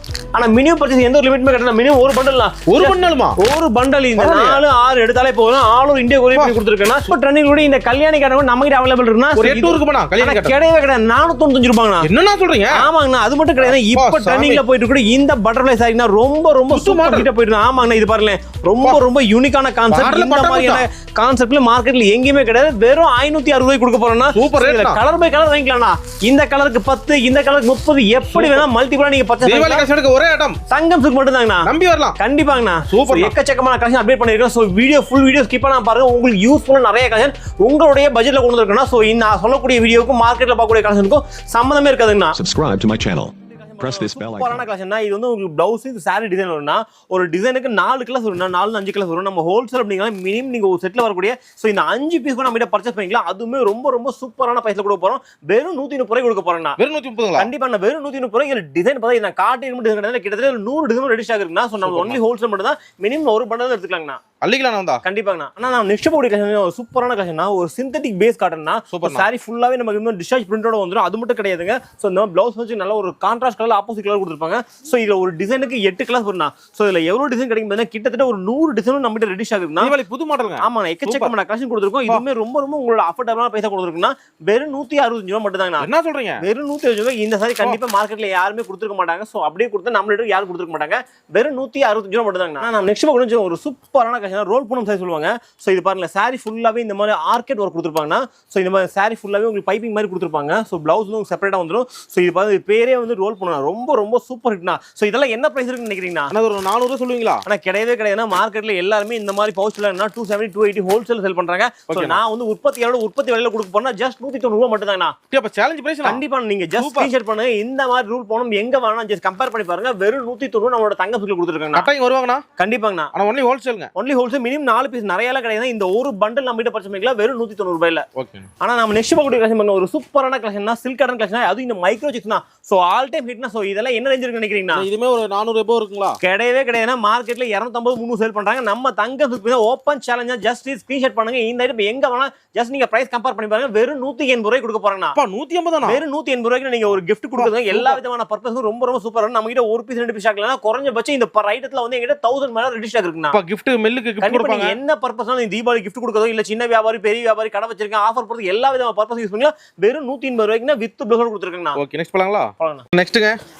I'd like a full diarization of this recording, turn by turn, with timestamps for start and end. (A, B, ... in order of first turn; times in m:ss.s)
0:00.3-0:12.1 A
0:02.7-0:03.4 B
0:04.2-0:04.6 B
0:09.3-0:10.5 B
0:12.0-0:12.8 B
0:12.7-0:29.8 A
0:13.6-0:14.6 B
0:16.7-0:17.3 B
0:19.9-0:20.8 B
0:24.3-0:25.0 B
0:28.3-0:28.6 B
0:29.4-0:30.6 B
0:30.7-0:42.4 A
0:31.6-0:32.2 B
0:32.9-0:33.4 B
0:42.4-0:44.6 C
0:43.4-0:56.8 A
0:56.8-0:57.5 B
0:57.4-1:04.2 A
1:01.8-1:02.2 B
1:04.4-1:05.0 B
1:05.0-1:19.9 A
1:08.9-1:09.3 B
1:19.8-1:21.3 B
1:20.6-1:25.9 A
1:25.8-1:26.4 B
1:26.4-1:46.3 A
1:46.3-1:47.4 B
1:47.4-1:55.2 A
1:51.9-1:52.2 B
1:55.3-1:56.2 B
1:56.0-2:01.9 A
1:56.7-1:57.1 B
2:01.7-2:02.4 B
2:02.6-2:03.1 A
2:03.1-2:03.9 B
2:03.9-2:08.0 A
2:08.2-2:08.5 B
2:08.6-2:14.8 A
2:14.7-2:16.2 B
2:16.2-2:25.2 A
2:25.2-2:26.0 B
2:25.8-2:33.4 A
2:27.4-2:28.0 B
2:33.3-2:34.8 B
2:34.2-2:41.8 A
2:41.7-2:43.4 B
2:42.6-2:42.8 A